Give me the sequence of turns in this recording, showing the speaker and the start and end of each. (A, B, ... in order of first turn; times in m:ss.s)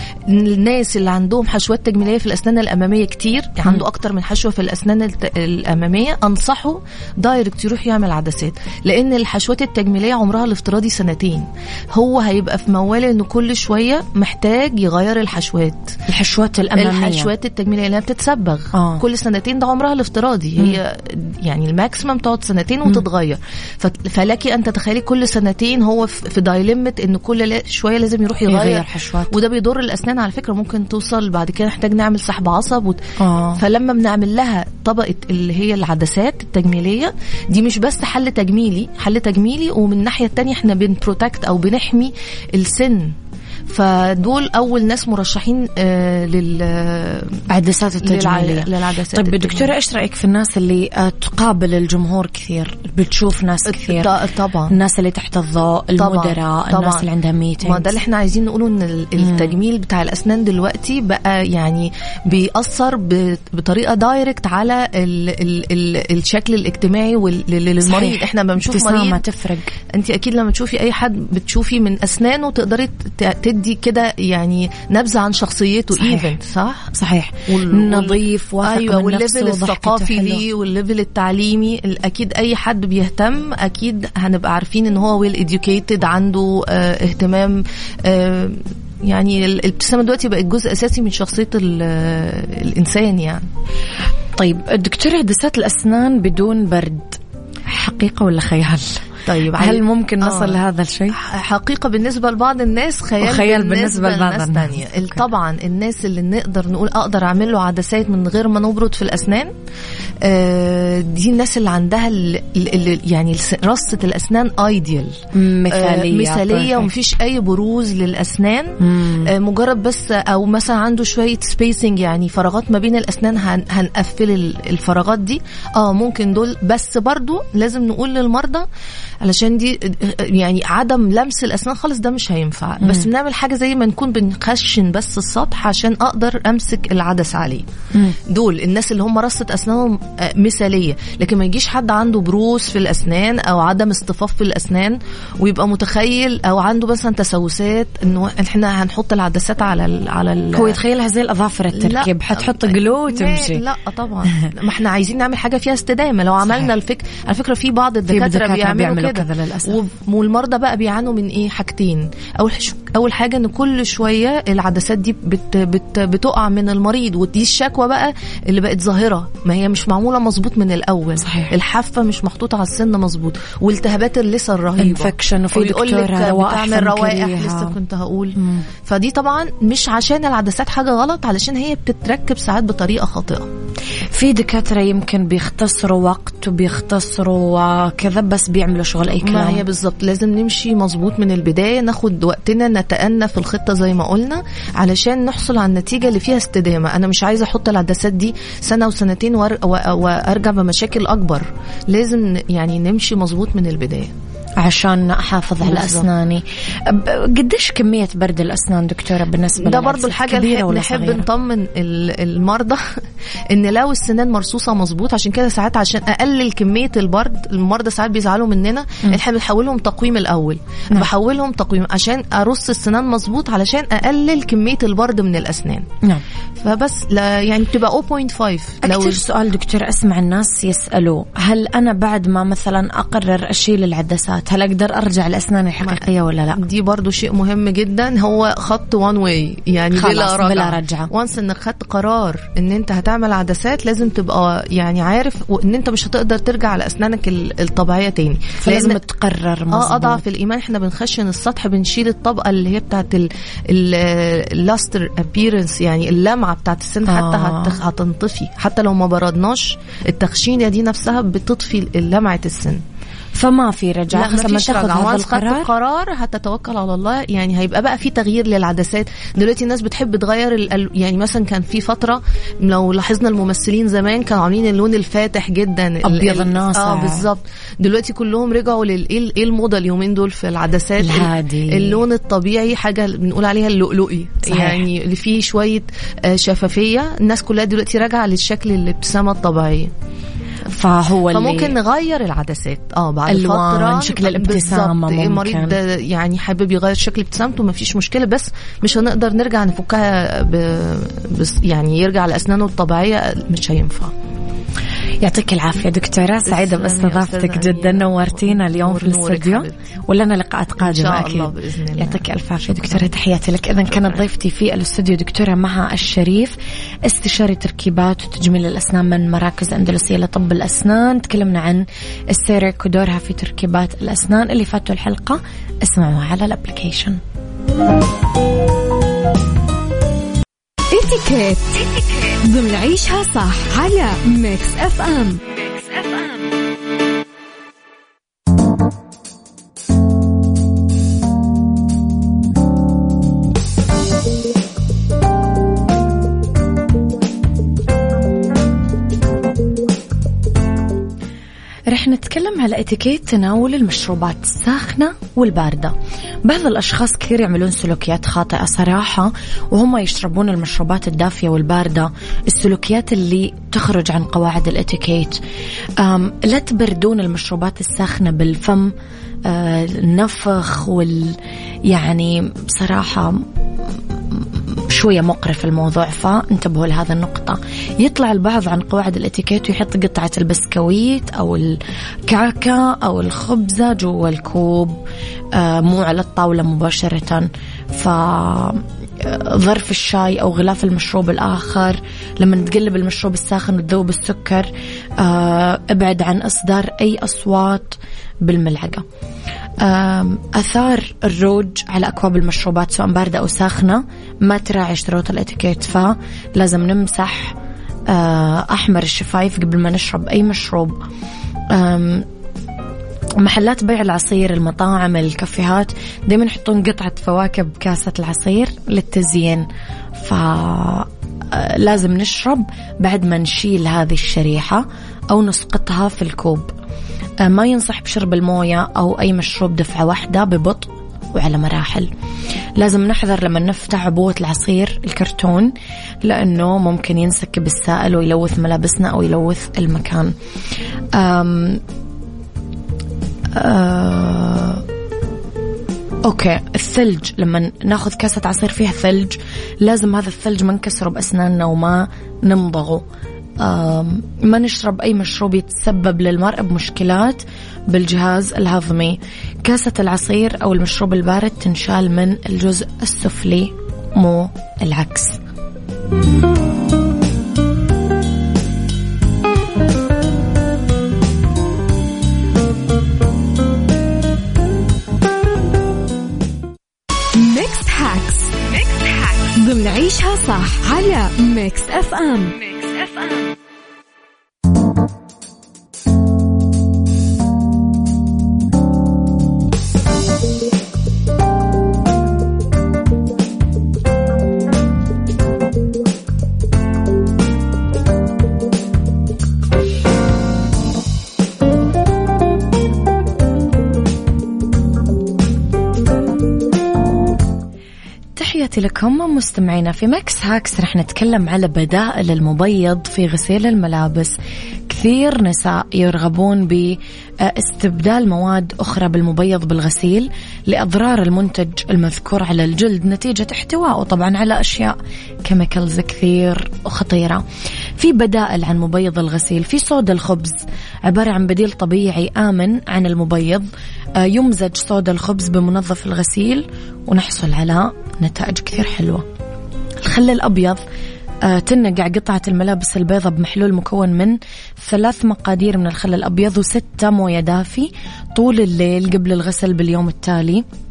0:00.3-0:15.9 A
0:16.1-0:17.3 B
0:16.8-0:33.0 A
0:18.7-0:19.0 B
0:28.5-0:29.4 B
0:33.2-0:33.6 B
0:33.6-0:43.1 A
0:43.7-0:47.4 A
0:47.5-0:54.1 B
0:48.0-0:49.7 A
0:53.7-0:54.8 A
0:54.7-0:58.0 B
0:56.0-0:57.0 A
0:57.6-1:09.2 A
0:59.2-0:59.6 B
1:07.8-1:09.8 B
1:09.9-1:16.9 A
1:16.0-1:16.4 B
1:16.9-1:20.5 B
1:17.5-1:33.5 A
1:34.4-1:41.2 B
1:39.3-1:40.6 A
1:41.1-1:49.5 A
1:43.2-1:45.3 B
1:50.2-1:55.2 A
1:55.3-1:56.9 B
1:55.7-2:08.6 A
1:58.8-1:59.3 B
2:09.2-2:17.6 A
2:12.8-2:13.1 B
2:18.3-2:30.8 A
2:30.5-2:33.6 B
2:31.7-3:03.5 A
2:38.1-2:39.8 B
2:51.2-2:51.6 B
2:54.8-2:57.8 B
2:58.4-2:58.6 B
3:04.1-3:09.6 B
3:09.2-3:24.1 A
3:24.6-3:31.3 B
3:25.6-3:26.1 A
3:29.6-3:32.8 A
3:33.5-3:45.9 A
3:46.6-3:49.2 A
3:48.8-3:56.6 B
3:56.6-4:09.0 A
3:59.9-4:01.1 B
4:08.6-4:10.2 B
4:09.7-4:22.8 A
4:17.0-4:17.8 B
4:23.3-4:25.7 B
4:24.1-4:49.9 A
4:36.0-4:37.3 B
4:41.0-4:42.0 B
4:44.4-4:44.9 B
4:50.7-4:51.8 B
4:51.3-5:04.1 A
4:53.3-4:55.8 B
5:05.2-5:27.2 B
5:06.5-5:09.8 A
5:10.8-5:13.1 A
5:30.9-5:36.4 C
5:51.9-6:05.4 B
6:06.0-6:08.9 B
6:09.4-6:25.0 B
6:25.5-6:39.0 B
6:39.8-6:47.6 B
6:48.1-6:51.0 B
6:51.7-6:52.3 B
6:53.4-7:06.7 B
7:07.4-7:12.1 B
7:12.8-7:20.3 B
7:21.1-7:21.8 B
7:23.5-7:24.9 B
7:26.2-7:33.0 B
7:33.6-7:45.4 B
7:57.4-8:03.5 C
8:28.4-8:34.4 B
8:34.9-8:47.4 B
8:48.0-8:59.2 B
9:00.0-9:00.8 B
9:01.4-9:10.6 B